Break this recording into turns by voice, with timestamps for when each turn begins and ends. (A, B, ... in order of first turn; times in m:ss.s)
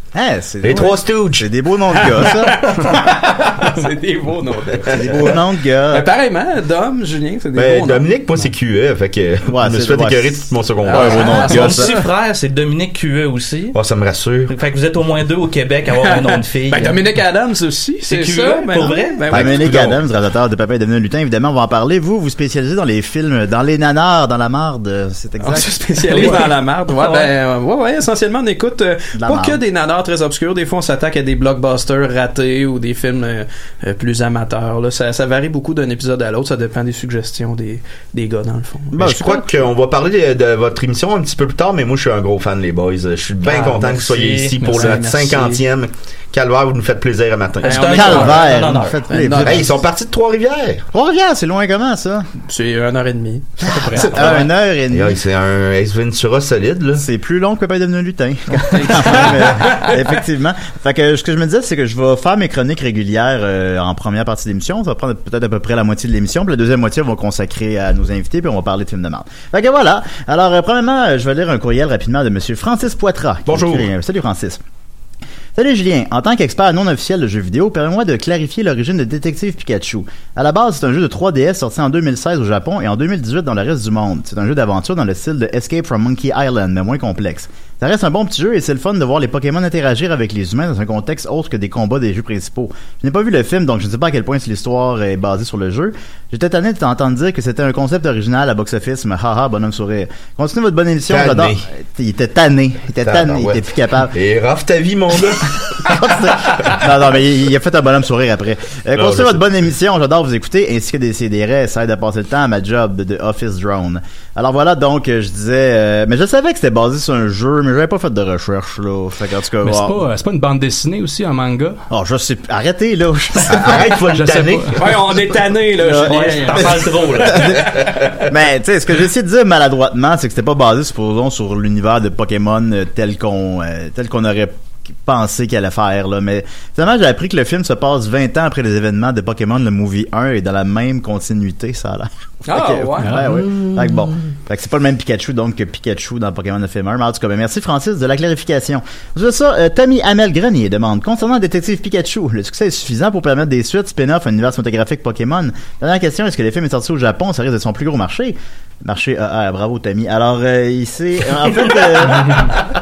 0:00.2-0:02.7 A
0:00.6-0:01.5 B
0:02.1-0:08.1 C
0:04.9-0:06.1 A
0:07.6-0:11.7 B
0:09.5-0:11.9 A
0:10.8-0:12.1 C
0:11.2-0:13.8 D
0:13.8-0:14.5 B
0:14.5-0:17.1 D
0:16.0-0:19.9 C
0:18.1-0:19.3 D
0:19.3-0:25.8 A
0:19.3-0:20.0 B
0:25.4-0:38.9 C
0:26.9-0:27.3 D
0:29.2-0:29.6 A
0:38.9-0:39.5 A
0:39.0-0:47.8 B
0:43.4-0:44.5 D
0:43.7-0:45.6 C
0:44.6-0:45.2 E
0:47.6-0:49.8 C
0:47.6-0:49.1 D
0:47.9-0:49.7 A
0:49.4-0:50.9 B
0:50.9-0:52.3 A
0:52.4-0:54.5 C
0:53.8-0:54.0 E
0:53.9-0:55.2 A
0:54.9-0:57.0 B
0:57.0-1:14.6 A
0:58.7-1:00.0 C
1:13.5-1:13.9 B
1:15.6-1:44.1 A
1:41.1-1:41.7 B
1:43.0-1:46.7 B
1:45.8-2:00.0 A
1:49.0-1:49.4 B
1:59.6-2:01.8 E
2:01.9-2:04.0 A
2:03.5-2:05.1 B
2:04.1-2:04.8 E
2:04.8-2:07.3 C
2:05.8-2:42.5 A
2:05.9-2:07.8 D
2:22.5-2:23.4 C
2:23.0-2:23.4 E